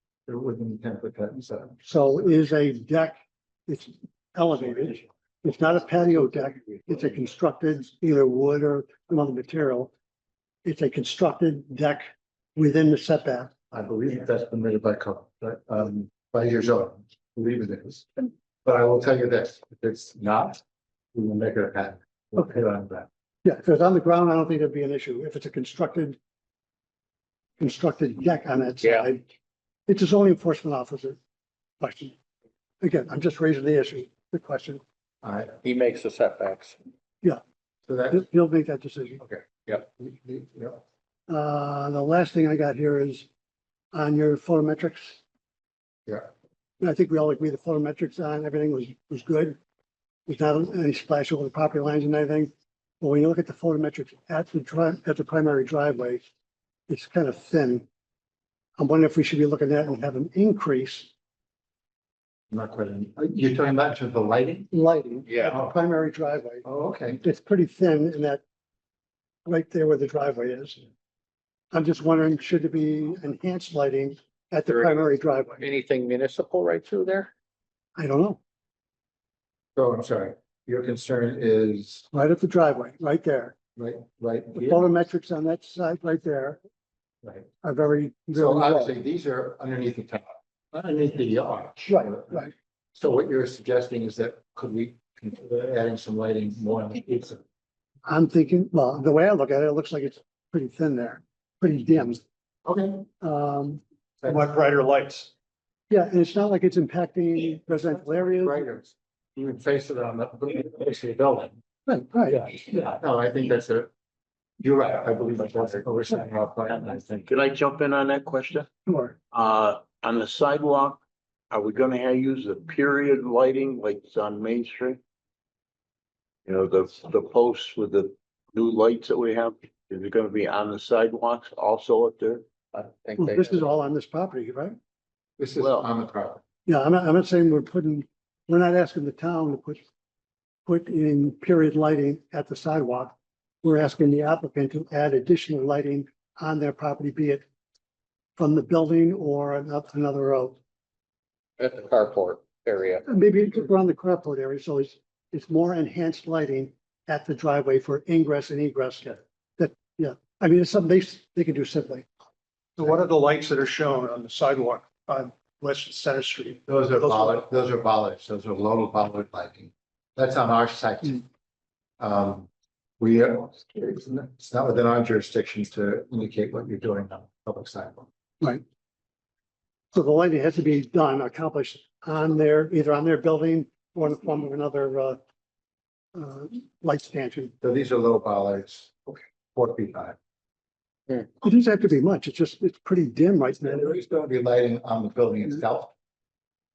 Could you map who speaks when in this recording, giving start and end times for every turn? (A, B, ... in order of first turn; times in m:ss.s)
0:00.2-0:01.8 A
0:01.8-0:09.9 B
0:10.6-0:13.5 B
0:13.7-0:20.6 A
0:21.1-0:23.1 A
0:23.4-0:26.2 B
0:27.6-0:29.2 B
0:28.8-0:29.1 C
0:29.9-0:31.2 B
0:31.8-0:32.2 B
0:32.8-0:34.8 B
0:35.2-0:35.6 A
0:35.6-0:36.8 C
0:37.9-0:38.3 A
0:38.1-0:39.2 B
0:39.2-0:40.8 A
0:41.3-0:43.3 B
0:43.9-0:45.2 B
0:46.8-0:49.6 B
0:50.3-0:56.3 B
0:56.9-0:57.9 B
0:58.8-1:01.1 B
1:02.5-1:04.7 A
1:04.7-1:06.6 B
1:05.3-1:05.5 C
1:06.6-1:07.2 A
1:07.2-1:08.4 B
1:09.5-1:10.8 B
1:11.7-1:15.7 B
1:15.6-1:17.3 C
1:18.0-1:18.4 B
1:19.8-1:22.0 A
1:22.1-1:23.6 B
1:23.8-1:24.9 A
1:24.6-1:26.6 B
1:27.6-1:29.0 B
1:28.3-1:37.4 A
1:31.9-1:32.5 B
1:38.1-1:42.2 B
1:42.6-1:43.1 A
1:43.2-1:43.8 B
1:44.3-1:45.3 D
1:45.9-1:48.7 B
1:48.2-1:51.6 A
1:51.9-1:52.6 B
1:52.3-1:53.9 A
1:54.6-1:57.3 A
1:57.3-1:58.7 E
1:58.9-1:59.2 B
1:59.3-2:01.0 E
2:01.5-2:05.0 E
2:06.4-2:12.4 E
2:12.7-2:13.6 C
2:13.2-2:14.8 B
2:15.4-2:16.4 A
2:15.6-2:15.9 E
2:16.7-2:19.8 B
2:20.7-2:27.4 B
2:28.4-2:30.6 B
2:31.6-2:33.0 C
2:33.1-2:42.1 B
2:42.8-2:46.6 D
2:44.8-2:45.6 B
2:46.7-2:51.2 A
2:52.0-2:52.5 A
2:53.0-2:58.1 A
2:59.9-3:05.2 B
3:06.2-3:07.5 B
3:07.6-3:10.2 A
3:11.4-3:14.0 B
3:13.6-3:15.9 A